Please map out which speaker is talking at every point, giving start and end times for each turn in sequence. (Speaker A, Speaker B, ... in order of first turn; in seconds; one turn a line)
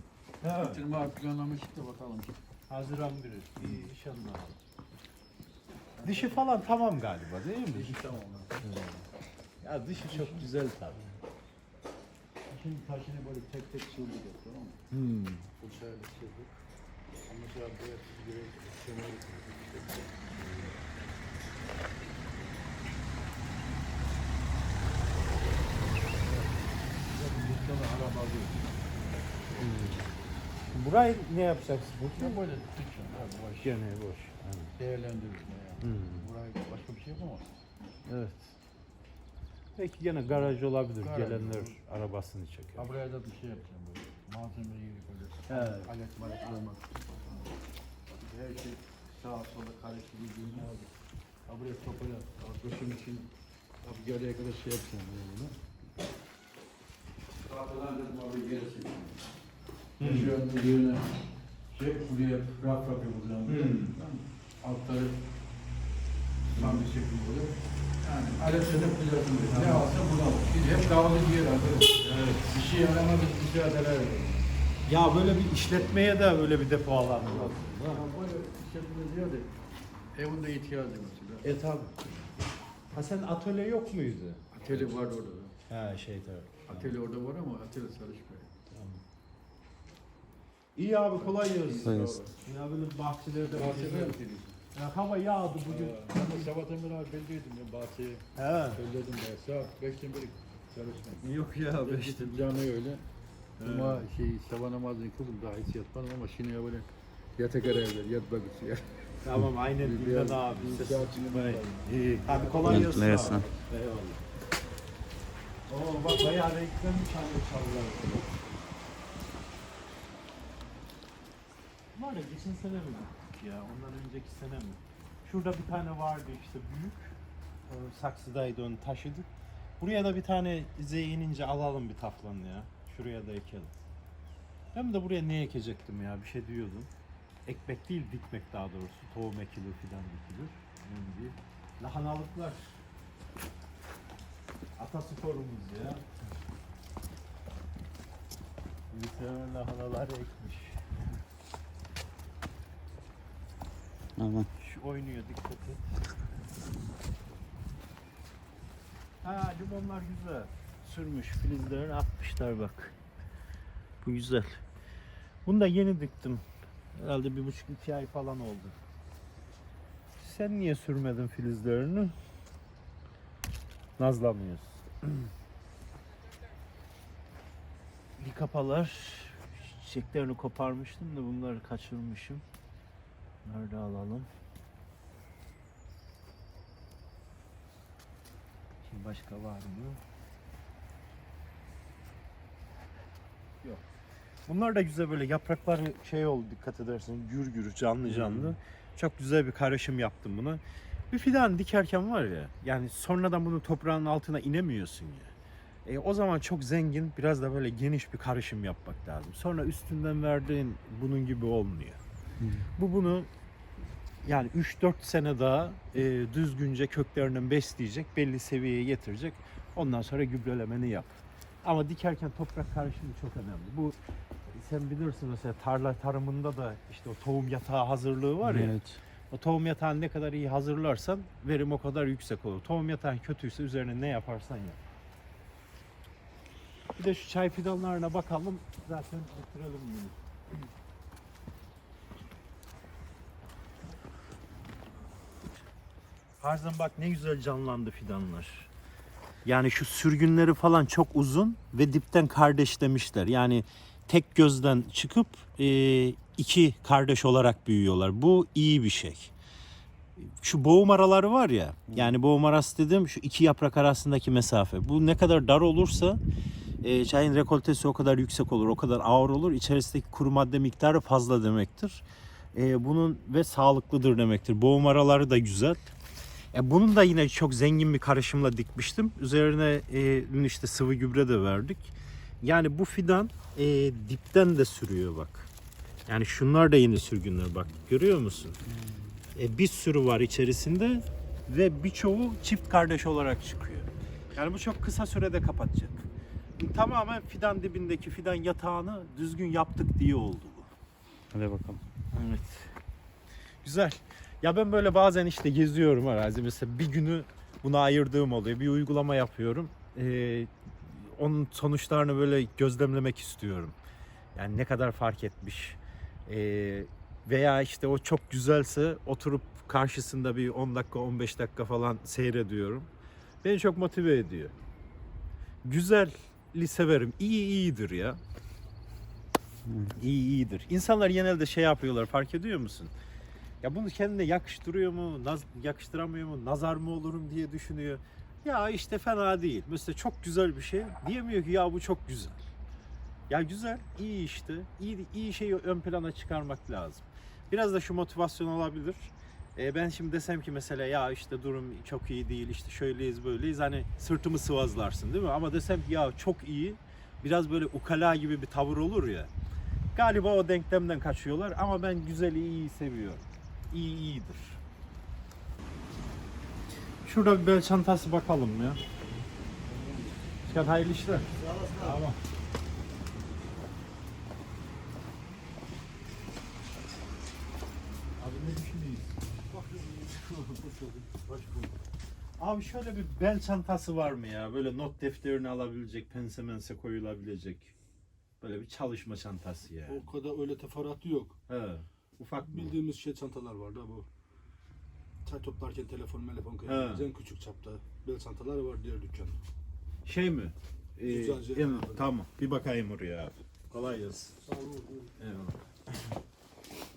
Speaker A: 0.4-0.8
Speaker B: 0.5-2.4
Speaker A: 2.7-4.6
Speaker B: 6.0-6.5
Speaker A: 6.0-8.1
Speaker B: 7.7-8.7
Speaker A: 8.6-9.0
Speaker A: 9.6-11.1
Speaker B: 10.0-10.5
Speaker B: 12.5-14.8
Speaker A: 14.9-15.5
Speaker B: 15.6-16.6
Speaker B: 17.2-20.7
Speaker A: 20.4-20.7
Speaker B: 26.1-28.9
Speaker B: 29.5-29.7
Speaker A: 29.6-30.1
Speaker A: 30.7-32.4
Speaker B: 32.1-33.8
Speaker A: 33.6-34.7
Speaker B: 34.8-37.6
Speaker A: 35.8-36.3
Speaker A: 38.1-38.5
Speaker A: 39.8-42.9
Speaker B: 40.4-41.8
Speaker B: 42.8-47.6
Speaker A: 45.5-45.9
Speaker B: 48.1-50.9
Speaker B: 51.5-53.3
Speaker B: 53.8-55.6
Speaker B: 57.4-59.2
Speaker A: 60.0-60.4
Speaker B: 60.0-61.2
Speaker B: 61.7-65.2
Speaker A: 63.5-63.9
Speaker B: 66.5-74.5
Speaker A: 66.5-66.9
Speaker A: 69.5-70.0
Speaker A: 72.0-72.6
Speaker A: 74.9-78.0
Speaker B: 77.2-79.6
Speaker B: 80.1-81.5
Speaker A: 81.4-82.3
Speaker A: 82.9-84.9
Speaker B: 84.5-85.6
Speaker A: 85.7-86.9
Speaker B: 86.7-88.5
Speaker A: 88.7-89.0
Speaker A: 90.8-94.2
Speaker B: 91.2-92.4
Speaker C: 91.8-92.2
Speaker B: 93.5-94.6
Speaker A: 94.7-96.5
Speaker B: 95.6-101.3
Speaker A: 98.4-98.8
Speaker A: 101.2-102.4
Speaker B: 101.8-103.0
Speaker A: 103.6-104.0
Speaker B: 103.6-109.1
Speaker A: 109.2-114.2
Speaker B: 109.8-113.4
Speaker C: 112.7-113.5
Speaker A: 115.7-118.3
Speaker A: 121.9-127.2
Speaker A: 127.7-129.3
Speaker A: 129.8-133.8
Speaker A: 134.7-136.9
Speaker A: 137.5-142.8
Speaker A: 144.8-146.1
Speaker A: 148.9-150.8
Speaker C: 154.2-154.5
Speaker A: 154.6-155.8
Speaker A: 159.2-163.0
Speaker A: 164.0-164.6
Speaker A: 165.4-166.4
Speaker A: 166.9-168.8
Speaker A: 170.2-172.2
Speaker A: 174.0-174.8
Speaker A: 178.2-182.4
Speaker A: 183.4-184.3
Speaker A: 188.8-190.0
Speaker A: 194.5-205.3
Speaker A: 205.8-212.0
Speaker C: 212.4-212.7
Speaker A: 212.8-213.3
Speaker A: 214.2-224.0
Speaker A: 224.5-228.8
Speaker C: 228.4-229.0
Speaker A: 229.3-234.8
Speaker A: 237.0-240.2
Speaker A: 246.4-248.7
Speaker A: 249.4-259.3
Speaker A: 260.2-266.2
Speaker A: 266.8-275.9
Speaker A: 276.5-285.5
Speaker A: 286.1-288.6
Speaker C: 288.7-289.2
Speaker A: 289.4-300.7
Speaker C: 301.3-301.8
Speaker A: 302.1-302.7
Speaker A: 303.6-313.8
Speaker A: 314.4-322.9
Speaker A: 323.4-324.5
Speaker A: 325.6-328.2
Speaker C: 329.6-330.0
Speaker A: 330.0-332.9
Speaker A: 333.6-342.5
Speaker A: 343.3-359.3
Speaker A: 359.9-364.6
Speaker A: 367.0-368.8
Speaker B: 369.7-370.1
Speaker A: 370.5-372.2
Speaker A: 378.2-380.6
Speaker D: 379.6-381.7
Speaker A: 382.4-387.7
Speaker A: 388.4-390.1
Speaker D: 389.9-391.4
Speaker A: 391.5-392.7
Speaker D: 392.5-394.1
Speaker D: 395.2-399.4
Speaker A: 396.7-397.1
Speaker A: 400.1-404.3
Speaker D: 401.0-402.1
Speaker D: 404.4-405.2
Speaker A: 405.2-406.1